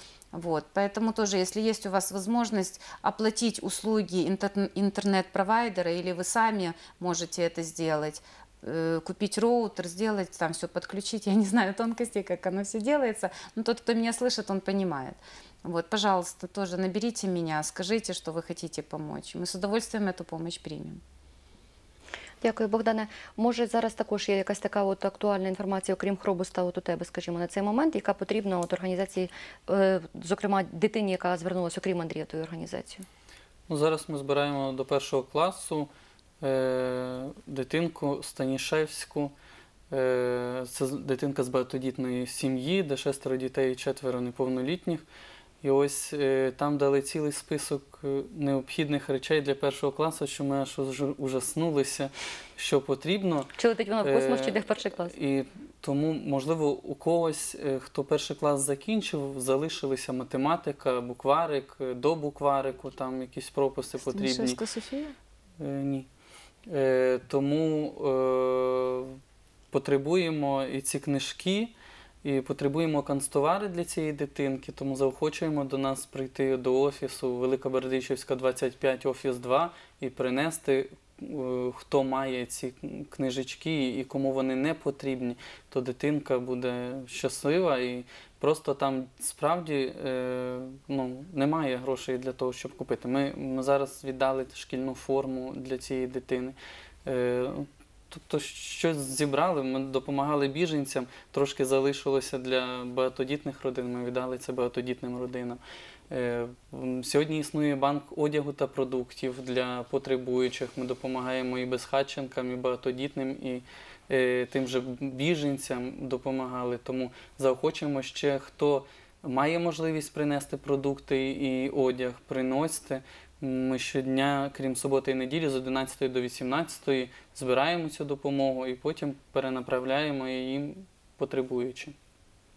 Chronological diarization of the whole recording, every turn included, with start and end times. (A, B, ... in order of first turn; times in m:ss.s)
0:00.3-0:21.0 A
0:22.4-0:33.0 B
0:33.7-0:35.9 C
0:36.4-0:39.3 C
0:39.9-0:45.0 C
0:45.6-0:53.5 C
0:53.6-0:55.1 B
0:54.0-1:04.6 C
1:04.0-1:05.1 A
1:05.6-1:06.1 C
1:06.7-1:09.2 C
1:09.7-1:11.7 C
1:12.2-1:45.6 C
1:46.1-2:11.9 C